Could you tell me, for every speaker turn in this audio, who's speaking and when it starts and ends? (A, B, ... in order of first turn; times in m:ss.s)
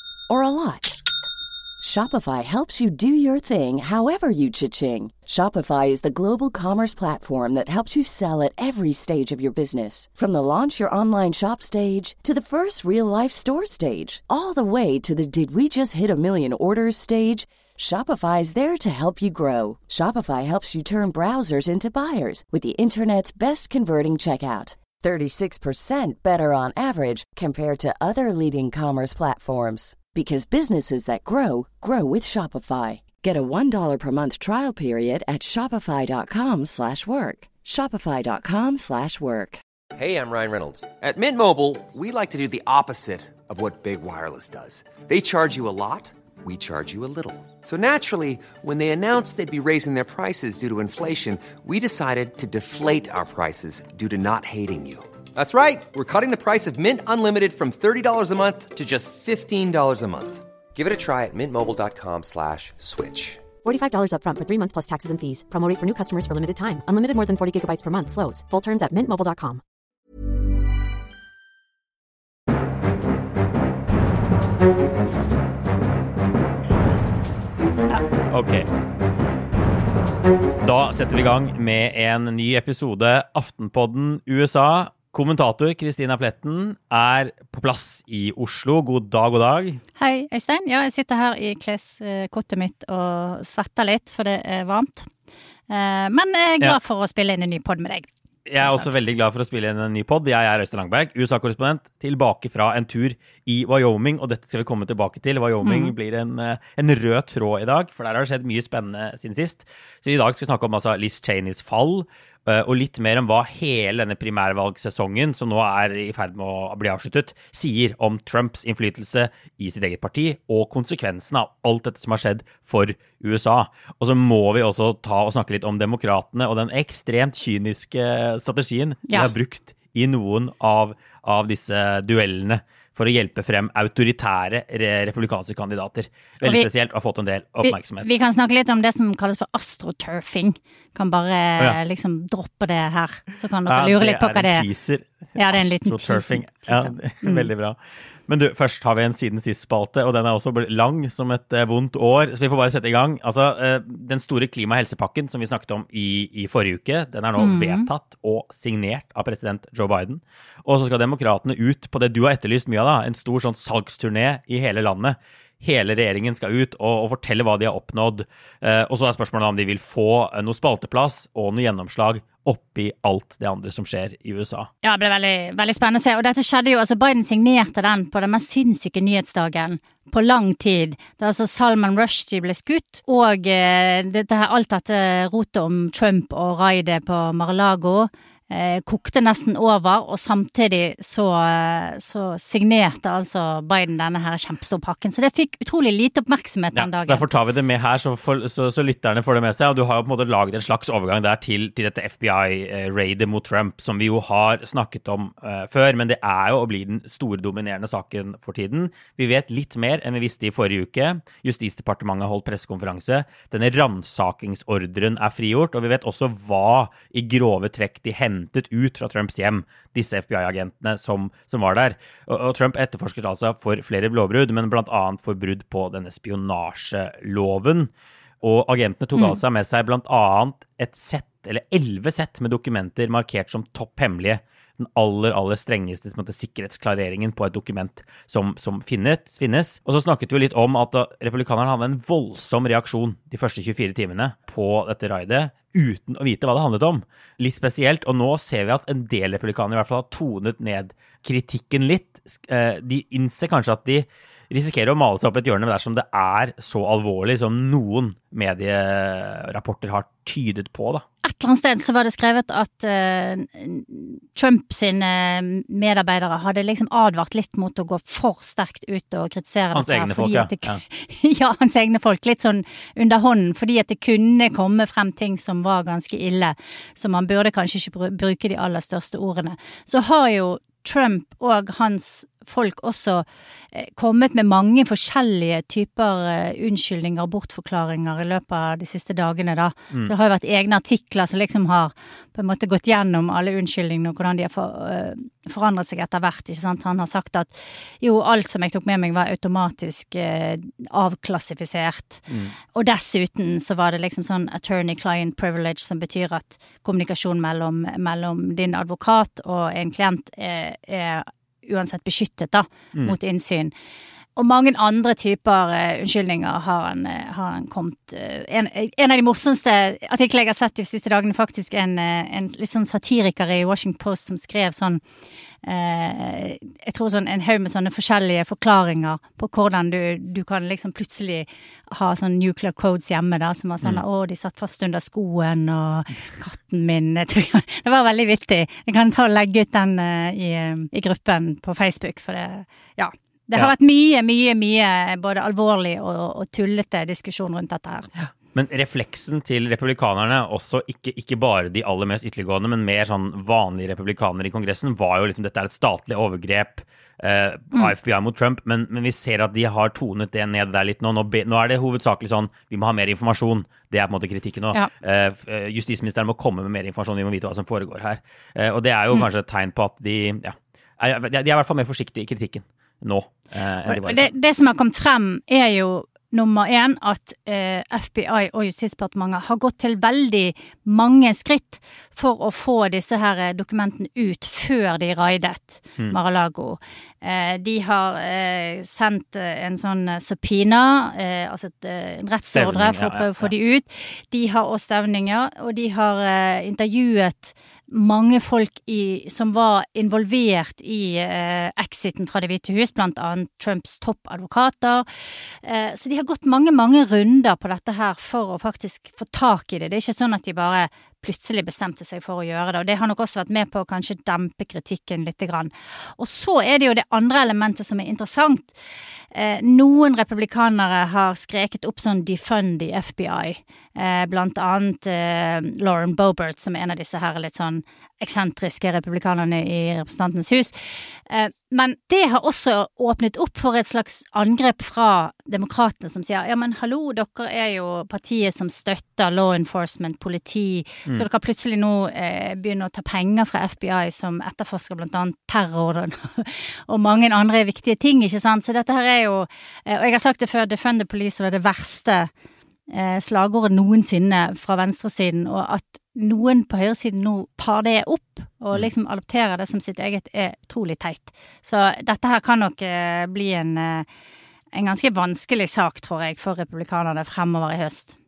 0:00.3-0:01.0 A
0:01.8-0:39.6 A
0:40.0-1:03.5 B
1:03.6-1:09.6 C
1:18.3-1:18.7 D
1:20.6-1:29.8 D
1:30.0-1:35.1 E
1:35.7-1:38.1 E
1:38.5-2:18.1 D
1:38.6-1:39.0 E
1:45.6-1:45.9 E
2:16.4-2:16.7 E
2:17.6-2:24.7 E
2:23.7-2:54.7 D
2:25.4-2:27.5 E
2:37.4-2:37.9 E
2:54.8-3:17.2 E
3:16.7-4:21.0 D
4:21.2-5:13.7 E
4:29.7-4:30.8 D
5:02.3-5:02.6 D
5:14.4-5:25.0 E
5:25.6-5:48.1 E
5:48.5-6:14.3 D
6:13.9-6:45.1 E
6:32.6-6:33.5 D
6:45.6-6:58.7 E
6:59.3-7:32.3 E
7:32.9-7:44.1 E
7:44.7-7:48.2 E